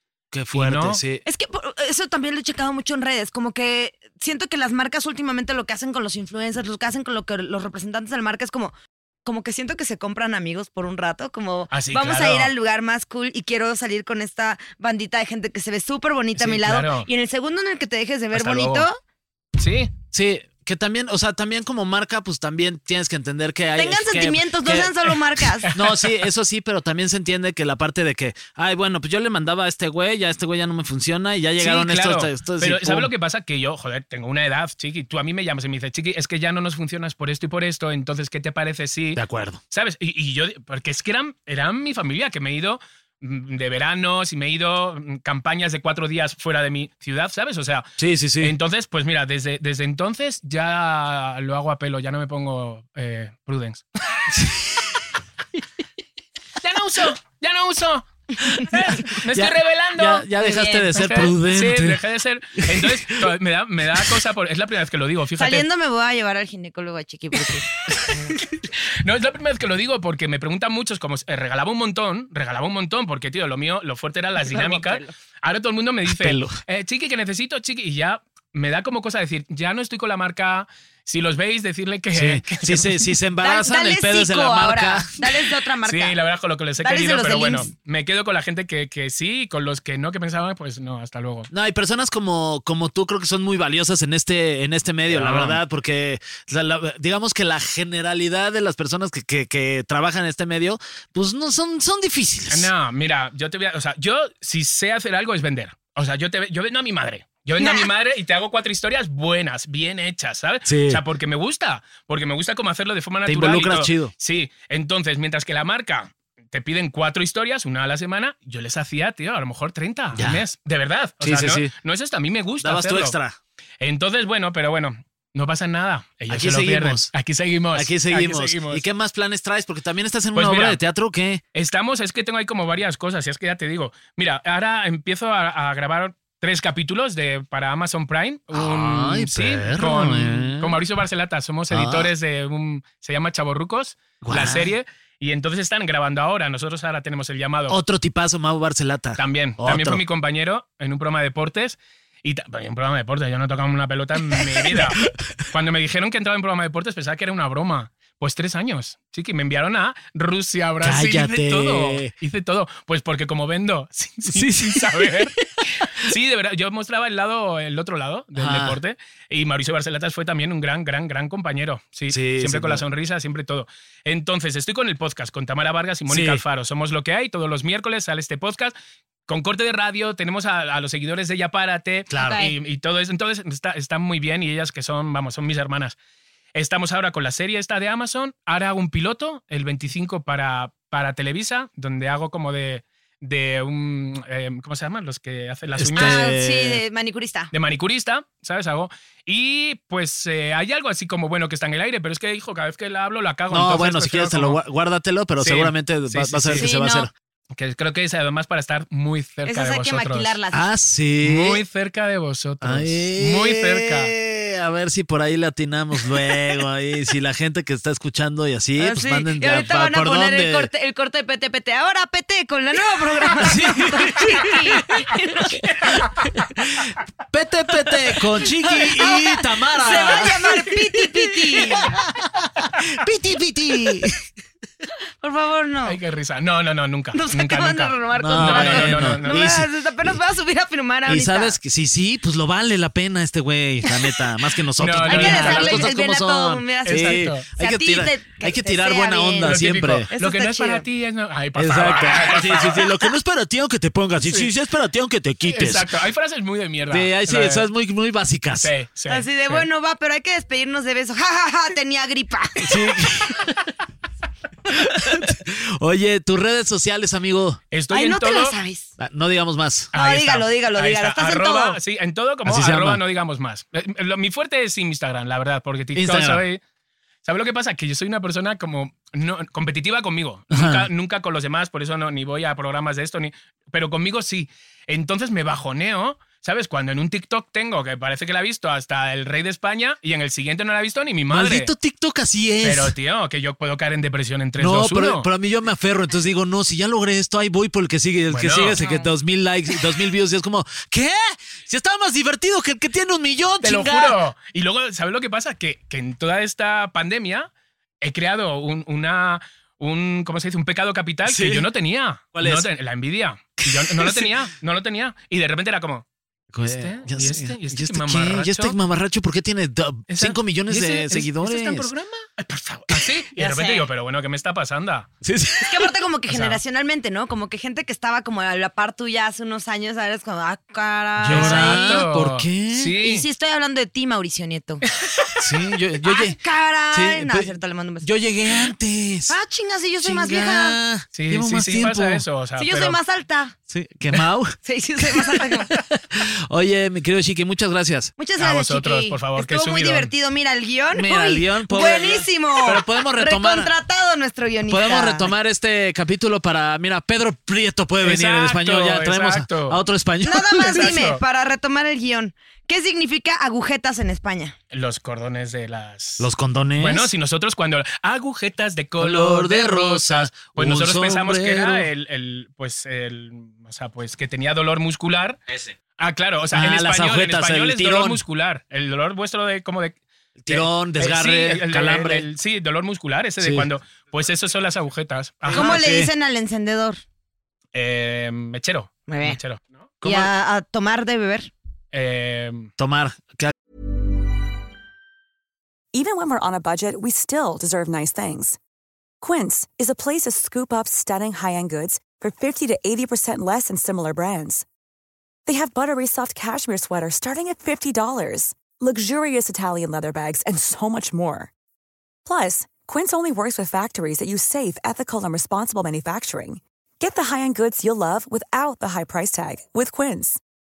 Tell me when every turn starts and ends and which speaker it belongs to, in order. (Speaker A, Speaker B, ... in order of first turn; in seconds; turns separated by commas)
Speaker A: 0.3-1.2, Speaker B: 0.5-1.0, Speaker C: 1.2-8.7, Speaker C: 9.2-19.0, Speaker B: 11.7-12.5, Speaker B: 16.4-17.1, Speaker B: 18.3-18.9, Speaker B: 19.6-19.9, Speaker A: 20.1-24.9, Speaker C: 23.8-25.7, Speaker B: 25.6-26.2, Speaker A: 25.7-33.1, Speaker B: 31.6-47.9, Speaker A: 39.2-39.6, Speaker A: 48.0-48.5, Speaker B: 48.4-54.3, Speaker A: 54.3-54.8, Speaker B: 56.6-60.3, Speaker A: 59.3-62.0, Speaker C: 60.4-61.3, Speaker B: 60.9-65.7, Speaker A: 62.6-63.3, Speaker C: 65.4-68.4, Speaker B: 69.0-83.1, Speaker C: 74.4-75.1, Speaker A: 76.1-76.6, Speaker A: 82.1-85.3, Speaker C: 83.4-86.2, Speaker B: 85.8-91.5, Speaker C: 86.8-87.7, Speaker A: 91.5-102.7, Speaker B: 95.1-95.6, Speaker B: 102.5-123.2, Speaker C: 107.6-107.9, Speaker A: 110.7-111.0, Speaker A: 113.3-114.1, Speaker A: 120.1-120.4, Speaker A: 121.2-121.7, Speaker A: 122.6-123.4, Speaker B: 123.8-128.8, Speaker A: 126.3-127.1, Speaker A: 127.8-131.4, Speaker B: 130.3-130.8, Speaker B: 131.6-147.8, Speaker A: 138.5-140.8, Speaker A: 141.7-142.1, Speaker A: 144.2-144.7, Speaker A: 147.7-150.0, Speaker B: 149.2-165.4, Speaker A: 154.4-155.1, Speaker A: 160.8-162.1, Speaker A: 164.3-166.1, Speaker B: 165.9-178.8, Speaker A: 168.3-168.8, Speaker A: 172.1-172.8, Speaker A: 176.1-176.4, Speaker B: 179.3-186.0, Speaker A: 182.1-182.4, Speaker C: 182.2-182.5, Speaker B: 186.6-196.2, Speaker A: 195.8-196.8, Speaker C: 196.0-197.5, Speaker B: 197.5-204.6, Speaker A: 203.5-207.1, Speaker B: 205.4-206.7, Speaker C: 206.6-207.1, Speaker B: 207.6-210.3, Speaker C: 209.5-210.7, Speaker A: 210.5-211.6, Speaker B: 211.2-214.1, Speaker A: 212.6-220.7, Speaker C: 218.8-226.1, Speaker A: 223.4-230.8, Speaker C: 228.7-232.0, Speaker A: 231.4-232.2, Speaker A: 232.7-234.2, Speaker C: 235.2-236.0, Speaker B: 235.9-239.6, Speaker C: 237.1-241.6, Speaker A: 238.2-239.7, Speaker A: 241.1-250.1, Speaker B: 244.8-245.9, Speaker C: 245.0-250.8, Speaker B: 246.9-247.5, Speaker B: 249.4-252.9, Speaker A: 251.6-255.9, Speaker B: 254.2-254.5, Speaker B: 255.5-257.7, Speaker A: 256.9-258.7, Speaker B: 258.6-259.7, Speaker C: 259.1-262.8, Speaker A: 262.6-263.7, Speaker A: 264.7-267.6, Speaker B: 267.7-268.6, Speaker C: 267.9-268.9, Speaker A: 269.0-269.9, Speaker B: 269.9-276.6, Speaker C: 269.9-271.8, Speaker A: 272.4-273.0, Speaker A: 276.0-276.4, Speaker B: 277.2-291.7, Speaker A: 280.5-280.9, Speaker A: 291.3-292.9, Speaker B: 292.6-295.3, Speaker A: 294.6-304.2, Speaker B: 298.3-298.8, Speaker C: 298.8-299.1, Speaker B: 303.6-307.5, Speaker B: 308.0-316.1, Speaker A: 311.3-311.7, Speaker A: 312.3-312.7, Speaker A: 313.6-314.3, Speaker A: 316.5-321.9, Speaker B: 316.6-318.8, Speaker B: 320.1-325.1, Speaker C: 323.4-323.9, Speaker A: 325.2-325.9, Speaker C: 325.6-332.1, Speaker B: 326.3-326.6, Speaker A: 331.2-332.9, Speaker B: 331.3-333.3, Speaker C: 333.0-334.8, Speaker B: 335.0-335.4, Speaker A: 335.4-336.4, Speaker C: 336.1-338.1, Speaker A: 336.9-337.5, Speaker A: 338.0-339.4, Speaker C: 339.3-340.8, Speaker A: 340.0-342.2, Speaker B: 341.1-343.0, Speaker C: 342.6-343.6, Speaker A: 343.7-345.4, Speaker C: 344.6-345.7, Speaker A: 346.1-348.1, Speaker C: 348.2-355.3, Speaker B: 348.4-350.1, Speaker A: 350.9-353.7, Speaker A: 354.7-361.0, Speaker B: 358.0-359.8, Speaker C: 360.2-364.6, Speaker B: 360.6-361.2, Speaker B: 364.7-375.4, Speaker A: 366.2-367.1, Speaker A: 369.0-371.9, Speaker B: 376.0-380.0, Speaker A: 376.5-378.2, Speaker A: 380.4-382.3, Speaker B: 380.5-385.8, Speaker A: 383.4-383.7, Speaker A: 385.5-386.1, Speaker C: 385.5-387.0, Speaker B: 387.7-390.3, Speaker C: 389.1-389.4, Speaker C: 390.0-391.5, Speaker B: 391.9-392.7, Speaker A: 392.8-393.5, Speaker D: 395.9-398.6, Speaker D: 399.2-404.6, Speaker D: 405.5-411.5, Speaker D: 412.2-420.4